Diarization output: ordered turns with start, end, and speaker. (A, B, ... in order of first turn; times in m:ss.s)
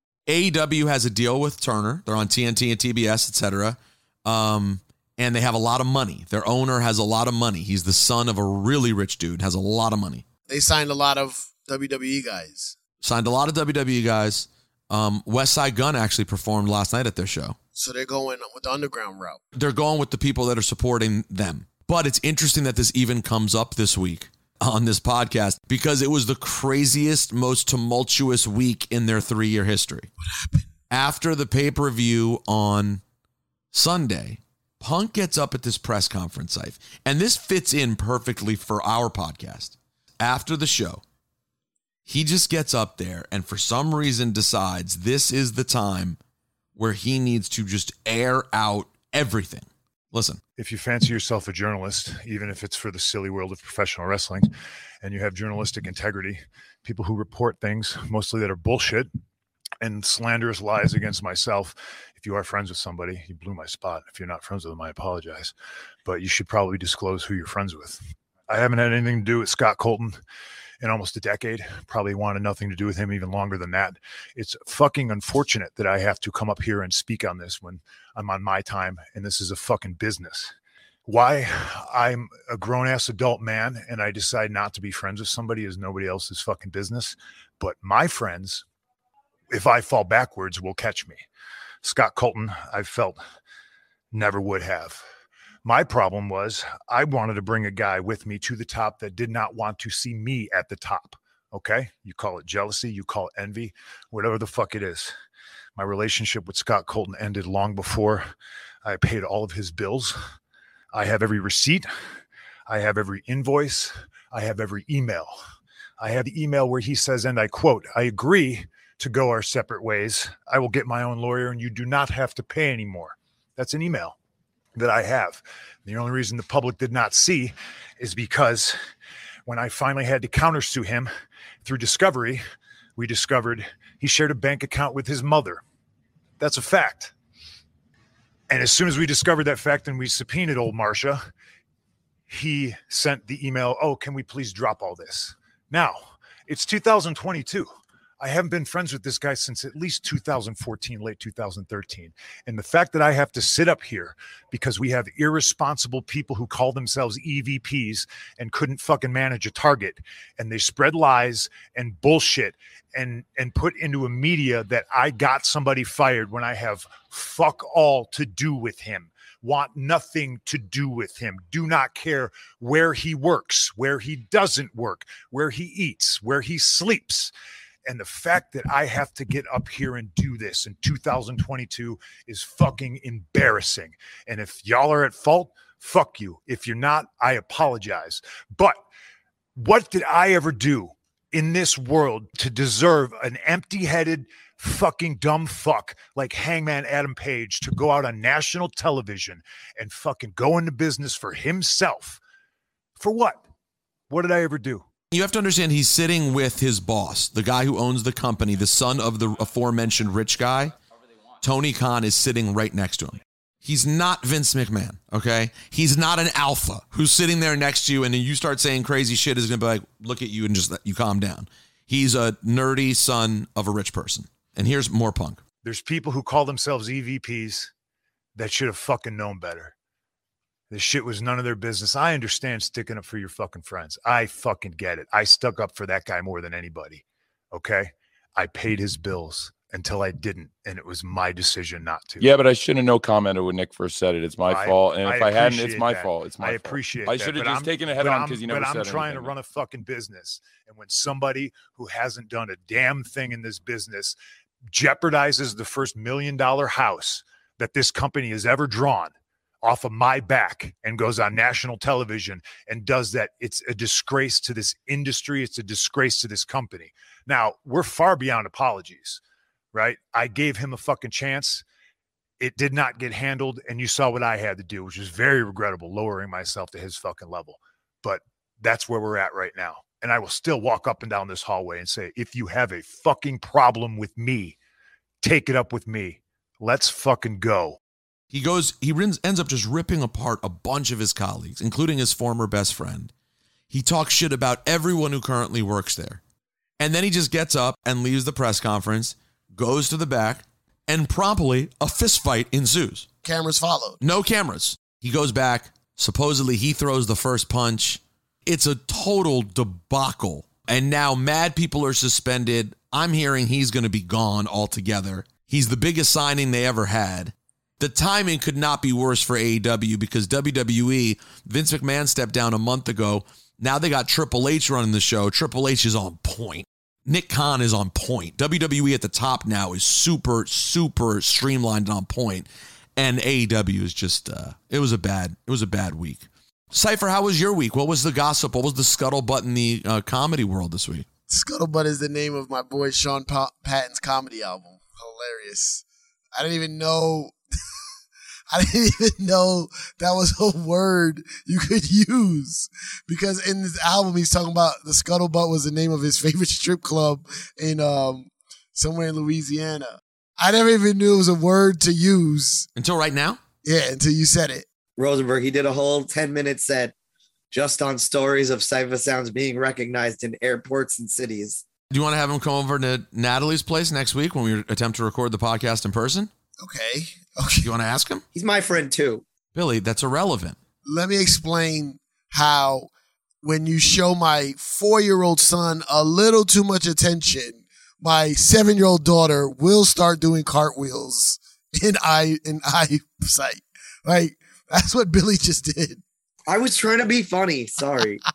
0:00.3-0:10.2 A
0:10.5-0:12.8 B
0:13.0-0:17.6 A
0:17.8-0:19.4 B
0:19.5-0:30.1 A
0:30.2-0:30.7 B
0:30.9-0:33.0 A
0:33.7-0:41.0 A
0:42.1-0:46.2 A
0:46.8-0:50.4 A
0:50.6-0:54.5 C
0:55.0-0:59.1 C
0:59.8-1:05.5 C
1:06.0-1:10.2 C
1:10.8-1:20.5 C
1:21.1-1:28.6 C
1:29.5-1:31.2 C
1:31.8-1:33.2 C
1:34.1-1:35.0 C
1:35.6-1:45.1 C
1:45.8-1:48.3 C
1:48.8-1:50.2 C
1:50.9-1:51.9 C
1:52.7-1:55.4 C
1:56.0-2:04.2 C
2:04.8-2:08.8 C
2:09.5-2:11.1 C
2:11.6-2:12.4 C
2:13.0-2:15.6 C
2:16.4-2:17.1 C
2:18.5-2:21.2 C
2:22.3-2:27.7 C
2:28.2-2:57.3 C
2:57.8-3:08.8 C
3:09.6-3:22.2 C
3:23.0-3:23.4 C
3:24.1-3:24.8 C
3:25.1-3:30.7 A
3:31.4-3:45.4 A
3:45.6-3:47.7 C
3:48.4-3:49.7 C
3:50.7-4:02.3 C
4:02.2-4:09.4 D
4:04.5-4:14.2 C
4:14.7-4:29.2 C
4:29.7-4:31.6 C
4:32.4-4:44.6 C
4:45.2-4:47.8 C
4:48.3-4:53.1 A
4:53.7-4:56.2 A
4:56.8-5:03.1 A
5:03.2-5:04.0 B
5:04.0-5:41.1 A
5:41.3-5:47.4 B
5:48.5-6:02.7 B
6:02.8-6:03.4 A
6:03.6-6:04.7 B
6:05.0-6:06.9 E
6:07.5-6:11.6 E
6:11.9-6:16.3 A
6:16.6-6:17.7 B
6:17.6-6:18.2 A
6:18.3-6:19.2 E
6:19.6-6:20.6 A
6:20.8-6:22.9 B
6:23.4-6:36.0 B
6:36.5-6:38.2 E